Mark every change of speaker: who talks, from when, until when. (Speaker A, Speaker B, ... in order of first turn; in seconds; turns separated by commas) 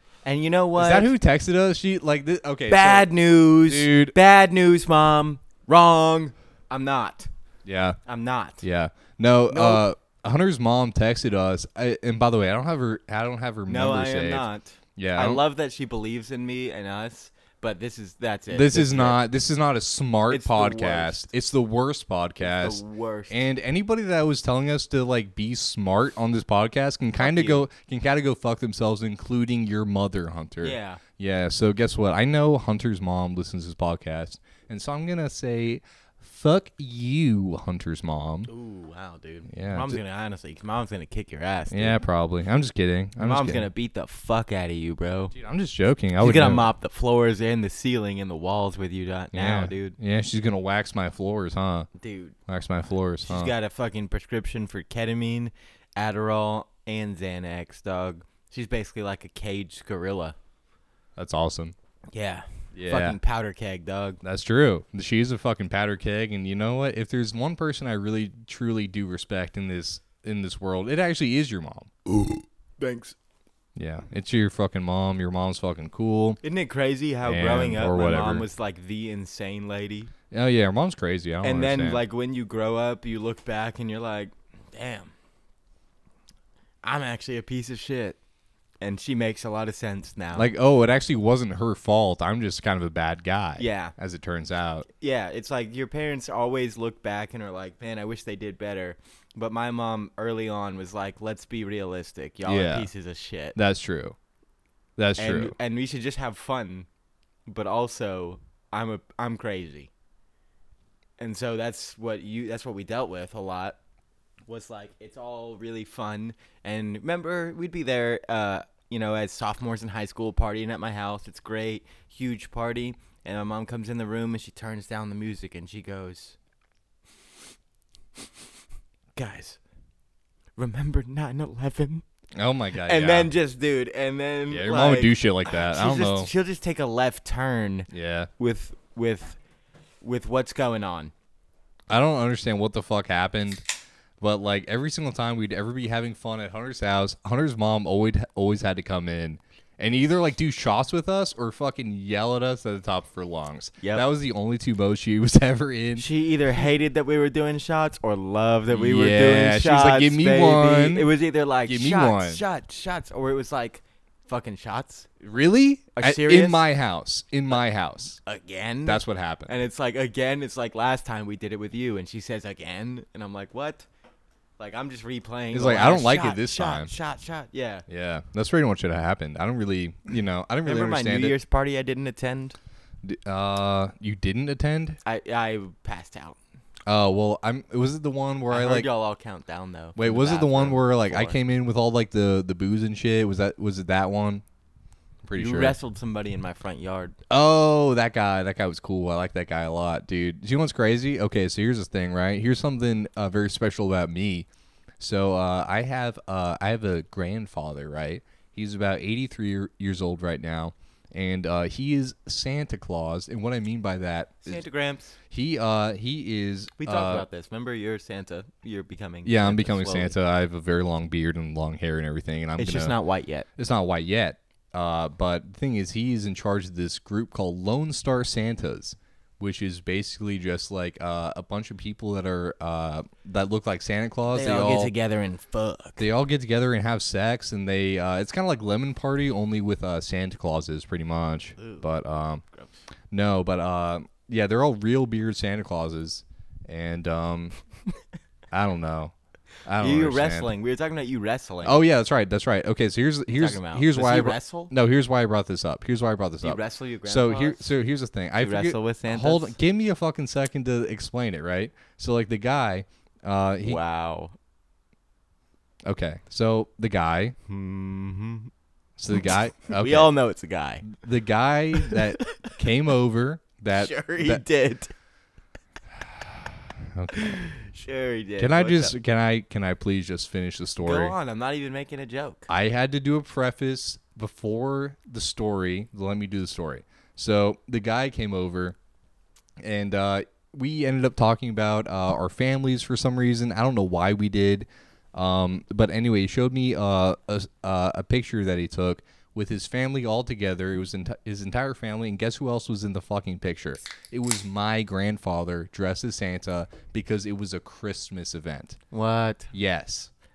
Speaker A: 0.2-1.1, Speaker B: 0.8-3.1, Speaker A: 2.7-7.3, Speaker B: 3.6-4.2, Speaker B: 7.6-8.0, Speaker A: 8.1-8.6, Speaker B: 8.6-15.4, Speaker A: 9.5-9.8, Speaker A: 13.7-19.2, Speaker B: 18.5-38.5, Speaker A: 20.3-21.3, Speaker A: 22.4-23.4, Speaker A: 27.2-27.6, Speaker A: 30.6-31.0, Speaker A: 38.5-42.0, Speaker B: 39.5-40.0, Speaker B: 41.7-43.7, Speaker A: 43.2-45.3, Speaker B: 45.3-46.7, Speaker A: 46.2-50.0, Speaker B: 49.3-51.9, Speaker A: 51.9-52.4, Speaker B: 52.5-53.5, Speaker A: 53.2-60.4, Speaker B: 61.2-61.7, Speaker A: 62.1-64.2, Speaker B: 62.7-63.2, Speaker B: 64.2-71.9, Speaker A: 72.1-73.2, Speaker B: 73.8-76.4, Speaker A: 76.4-80.1, Speaker B: 77.2-78.5, Speaker B: 80.3-82.0, Speaker A: 81.4-85.1, Speaker A: 86.8-88.2, Speaker A: 88.8-90.5, Speaker B: 90.3-94.9, Speaker A: 93.6-93.9, Speaker A: 95.0-103.6, Speaker B: 102.5-102.9, Speaker B: 103.5-104.2, Speaker B: 105.0-105.5, Speaker A: 105.2-106.9, Speaker A: 107.5-109.9, Speaker A: 111.2-113.8, Speaker A: 114.5-126.3, Speaker A: 129.2-129.6, Speaker A: 130.6-132.0, Speaker B: 132.3-133.3, Speaker A: 132.8-139.4, Speaker B: 134.5-136.3, Speaker B: 137.9-138.3, Speaker A: 140.0-141.1, Speaker B: 141.9-143.6, Speaker B: 144.2-156.1, Speaker A: 153.8-154.0, Speaker A: 156.0-165.1, Speaker B: 158.7-161.1, Speaker B: 161.7-162.4, Speaker B: 165.2-168.2, Speaker A: 165.9-166.6, Speaker A: 168.2-173.8, Speaker B: 168.8-169.5, Speaker A: 174.6-177.8, Speaker B: 175.5-176.9, Speaker B: 177.9-181.3, Speaker A: 180.6-182.6, Speaker B: 183.0-185.0, Speaker A: 185.0-186.4, Speaker B: 186.8-188.9, Speaker A: 188.5-191.4, Speaker B: 189.9-194.4, Speaker B: 195.2-195.8, Speaker A: 195.3-197.2, Speaker B: 197.3-204.5, Speaker B: 205.0-214.6, Speaker A: 214.4-215.2, Speaker B: 215.3-217.2, Speaker A: 216.8-220.1, Speaker B: 219.2-222.9, Speaker A: 222.6-223.5, Speaker B: 223.6-234.9, Speaker A: 234.3-236.1, Speaker B: 236.0-242.4, Speaker A: 241.6-241.8, Speaker B: 243.1-247.6, Speaker B: 248.5-249.1, Speaker B: 249.6-250.5, Speaker A: 249.8-251.8, Speaker B: 251.6-263.8, Speaker A: 253.3-254.7, Speaker A: 256.4-257.7, Speaker A: 258.4-259.6, Speaker A: 263.6-264.3, Speaker B: 265.9-267.4, Speaker A: 267.5-268.5, Speaker B: 269.0-270.1, Speaker A: 269.2-270.9, Speaker B: 270.8-274.4, Speaker A: 271.7-272.6, Speaker A: 273.7-274.9, Speaker B: 276.9-277.5, Speaker A: 277.1-278.9, Speaker B: 278.4-281.1, Speaker A: 280.8-282.5, Speaker B: 282.5-288.8, Speaker B: 289.6-308.8, Speaker A: 308.9-309.5, Speaker B: 309.5-310.1